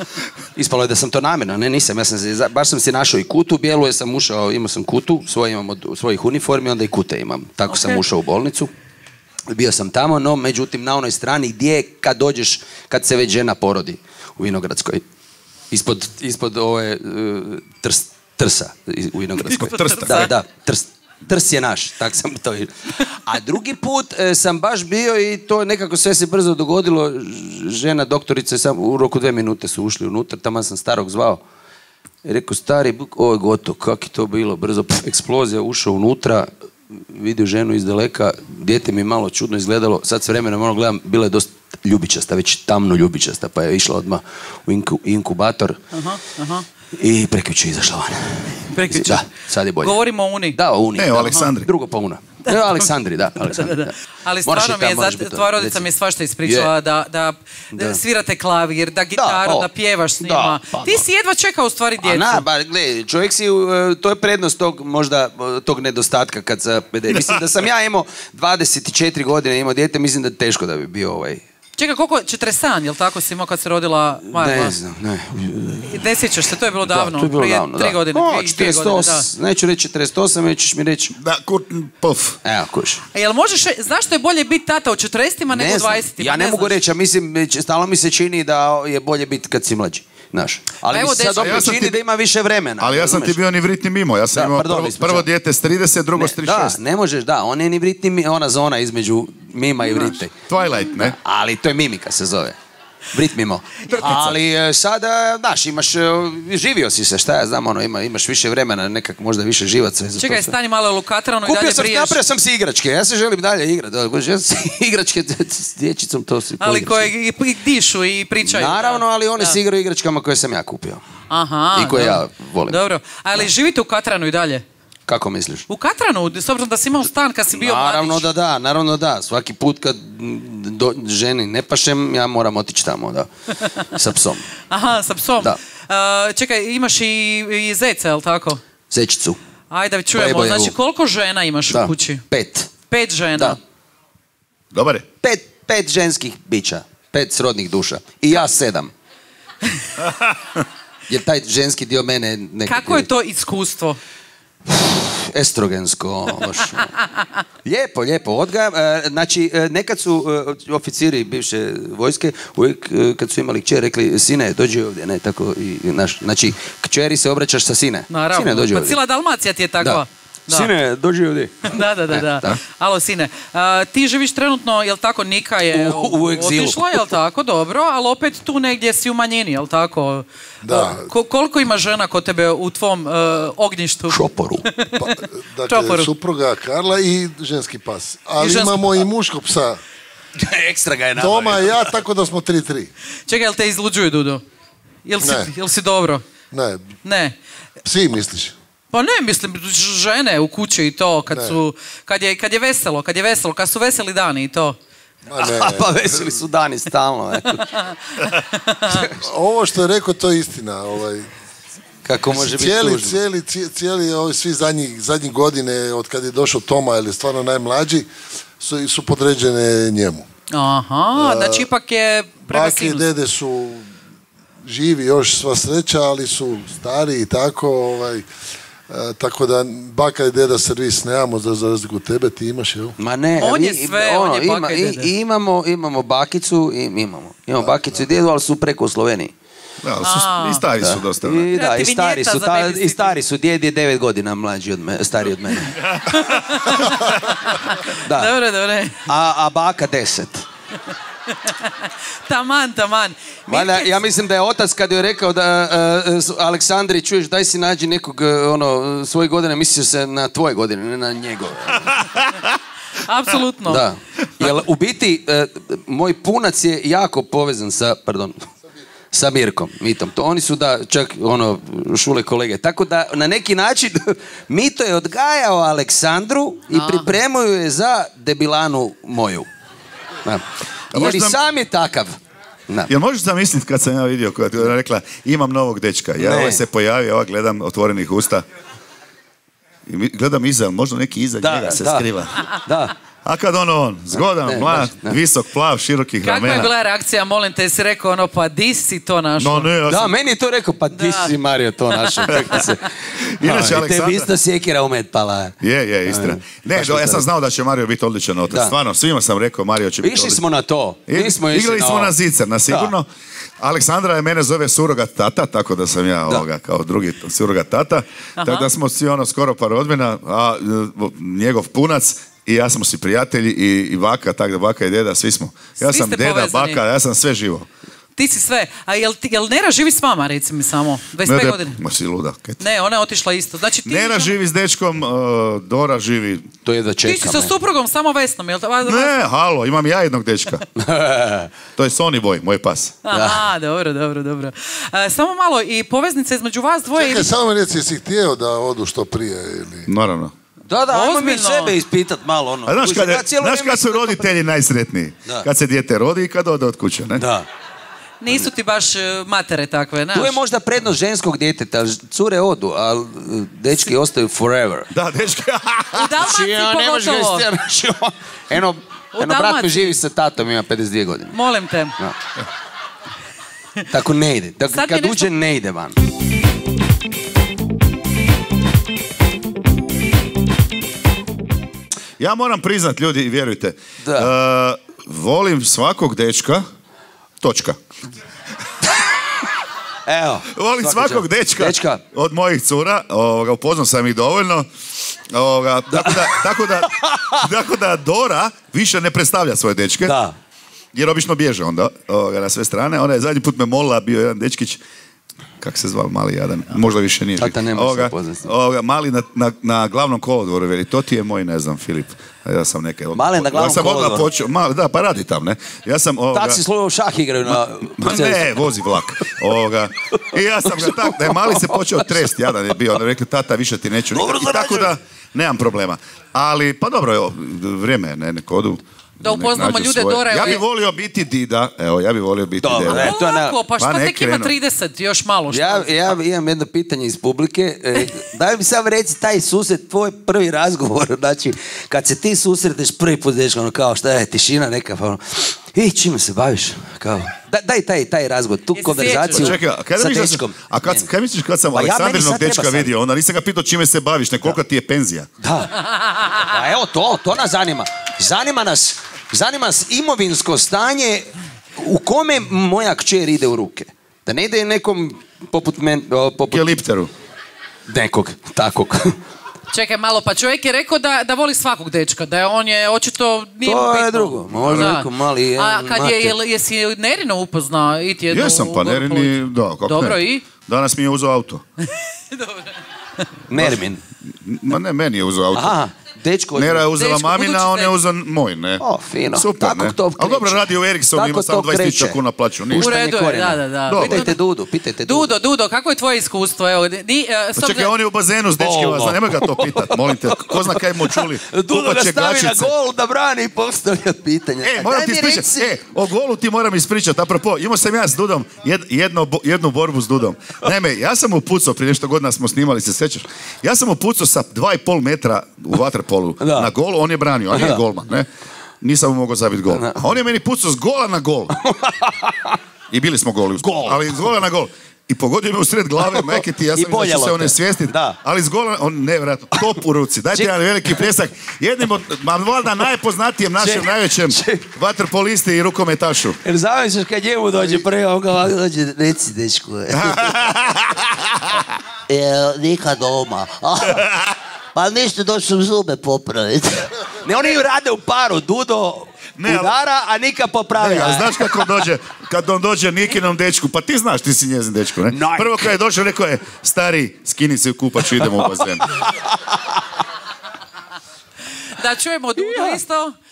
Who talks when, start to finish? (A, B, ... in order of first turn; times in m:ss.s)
0:00.6-0:08.7 A
0:07.7-0:08.0 B
0:09.5-0:15.0 A
0:15.7-0:31.4 A
0:19.4-0:20.3 B
0:19.5-0:20.3 C
0:32.2-0:45.8 A
0:45.9-0:46.6 B
0:46.9-0:50.0 A
0:48.7-0:49.3 B
0:49.8-0:50.6 B
0:50.5-0:55.8 A
0:50.9-0:51.7 C
0:52.5-1:02.4 B
0:56.4-0:56.7 A
0:57.7-0:58.0 A
0:59.1-0:59.7 A
1:00.2-1:01.0 A
1:02.0-1:11.4 A
1:07.1-1:07.4 C
1:11.8-1:14.7 B
1:14.3-1:16.0 A
1:15.9-1:19.3 B
1:16.8-1:21.1 A
1:21.2-1:22.4 C
1:22.4-1:23.0 A
1:23.1-1:26.8 B
1:25.5-1:33.4 A
1:30.8-1:31.8 B
1:31.4-1:32.0 C
1:32.8-1:36.8 C
1:34.3-1:35.3 A
1:36.1-1:40.3 A
1:40.5-1:41.2 C
1:41.0-1:42.6 A
1:43.1-1:50.5 A
1:43.9-1:44.4 C
1:50.2-1:52.2 B
1:51.4-1:57.1 A
1:56.6-1:59.6 B
1:58.4-2:01.0 A
2:01.3-2:04.6 B
2:01.7-2:02.8 A
2:05.1-2:05.7 A
2:05.7-2:08.3 B
2:07.5-2:13.3 A
2:13.8-2:14.5 A
2:14.7-2:18.6 B
2:18.9-2:19.4 A
2:19.7-2:22.2 B
2:20.1-2:20.7 A
2:21.7-2:22.7 A
2:22.9-2:23.6 B
2:24.7-2:25.0 C
2:25.2-2:28.9 A
2:30.0-2:30.6 C
2:31.1-2:33.0 A
2:32.7-2:34.0 B
2:34.7-2:36.9 A
2:37.6-2:49.0 A
2:48.1-2:50.7 B
2:49.8-2:52.6 A
2:51.6-3:06.1 B
2:55.7-2:57.1 A
3:00.6-3:01.1 D
3:04.1-3:04.6 A
3:05.0-3:09.8 D
3:08.4-3:08.8 B
3:10.4-3:11.9 A
3:11.2-3:12.9 D
3:13.3-3:14.4 B
3:15.0-3:16.2 B
3:15.2-3:15.5 D
3:16.5-3:16.9 D
3:17.0-3:17.3 B
3:17.8-3:18.6 D
3:18.9-3:24.8 B
3:21.3-3:21.6 D
3:25.3-3:26.4 D
3:25.4-3:27.7 A
3:27.6-3:29.1 B
3:28.9-3:29.1 A
3:29.2-3:31.3 D
3:32.0-3:33.2 A
3:32.3-3:38.1 D
3:38.6-3:40.2 D
3:40.5-3:43.0 B
3:41.1-3:41.7 D
3:42.5-3:43.9 D
3:44.6-3:48.2 D
3:48.9-3:53.0 D
3:53.0-3:59.3 A
3:53.4-3:55.1 B
3:59.8-4:01.4 C
4:00.0-4:00.6 B
4:00.8-4:05.8 A
4:01.5-4:03.2 B
4:05.8-4:07.1 C
4:06.1-4:09.1 B
4:08.0-4:08.3 A
4:09.1-4:10.4 A
4:11.4-4:11.7 B
4:12.2-4:13.9 B
4:13.5-4:22.0 A
4:22.0-4:22.4 C
4:23.0-4:23.8 B
4:23.6-4:28.5 A
4:29.1-4:39.5 A
4:36.7-4:37.1 B
4:40.2-4:42.2 A
4:40.9-4:41.4 C
4:42.9-4:48.4 C
4:46.2-4:46.6 A
4:49.8-4:52.6 C
4:51.4-4:52.9 A
4:53.2-4:56.7 C
4:54.4-4:55.2 A
4:56.2-4:59.7 B
4:59.4-5:00.1 C
4:59.9-5:07.3 A
5:00.9-5:01.3 B
5:01.9-5:02.6 B
5:03.2-5:04.3 C
5:05.6-5:10.4 C
5:08.5-5:08.8 A
5:10.0-5:12.1 A
5:11.1-5:13.1 C
5:13.6-5:27.7 C
5:18.4-5:18.7 B
5:25.8-5:26.8 B
5:28.2-5:31.8 B
5:31.2-5:32.6 C
5:32.6-5:34.4 B
5:33.8-5:36.5 C
5:36.6-5:37.5 A
5:37.0-5:39.2 B
5:38.8-5:40.6 C
5:40.8-5:41.5 A
5:41.8-5:43.0 C
5:43.0-5:47.3 B
5:43.1-5:43.4 A
5:46.9-5:49.9 D
5:49.9-5:50.3 C
5:50.7-5:54.3 A
5:50.9-5:51.7 B
5:52.6-5:57.2 C
5:57.2-5:57.5 A
5:58.2-6:00.4 B
6:00.1-6:04.9 A
6:04.9-6:06.2 C
6:05.9-6:07.5 B
6:06.2-6:11.4 A
6:09.2-6:10.0 B
6:11.3-6:11.9 B
6:13.9-6:16.0 A
6:14.7-6:15.3 B
6:22.2-6:26.6 C
6:24.0-6:24.3 A
6:27.4-6:27.8 C
6:30.1-6:32.0 A
6:30.6-6:34.7 C
6:35.3-6:40.2 C
6:35.9-6:37.4 A
6:40.0-6:40.4 A
6:40.9-6:44.8 C
6:45.6-6:56.6 C
6:47.4-6:48.5 A
6:53.1-6:54.3 A
6:56.3-6:58.6 A
6:57.5-7:13.1 C
7:00.3-7:02.1 A
7:04.1-7:04.9 A
7:09.2-7:10.6 B
7:12.6-7:13.6 A
7:12.9-7:16.1 B
7:13.8-7:14.5 C
7:15.5-7:31.1 A
7:28.7-7:29.6 B
7:29.3-7:35.3 C
7:31.7-7:32.9 A
7:35.4-7:35.8 A
7:36.3-7:46.8 A
7:46.5-7:47.1 C
7:47.9-7:49.2 A
7:49.7-8:00.4 B
7:53.6-7:56.3 A
7:58.3-8:01.6 C
8:01.8-8:03.2 B
8:03.5-8:04.0 A
8:03.5-8:05.8 C
8:05.5-8:06.9 A
8:06.6-8:12.9 C
8:06.9-8:07.9 B
8:08.8-8:15.3 A
8:12.7-8:14.4 B
8:13.9-8:14.3 C
8:15.0-8:17.9 B
8:17.6-8:22.7 C
8:18.6-8:25.8 A
8:24.6-8:38.3 C
8:36.4-8:36.7 A
8:37.5-8:37.8 A
8:38.8-8:41.5 C
8:39.7-8:40.0 A
8:41.5-8:42.6 A
8:42.9-8:56.4 C
8:43.6-8:44.3 A
8:46.0-8:48.2 A
8:50.3-8:51.0 A
8:53.6-8:54.7 A
8:56.4-9:00.4 A
8:59.9-9:01.7 C
9:02.1-9:04.0 A
9:03.9-9:04.3 C
9:04.7-9:11.7 A
9:09.4-9:09.7 C
9:10.8-9:19.0 C
9:15.1-9:15.7 A
9:18.1-9:19.8 A
9:21.7-9:23.1 B
9:22.4-9:22.8 A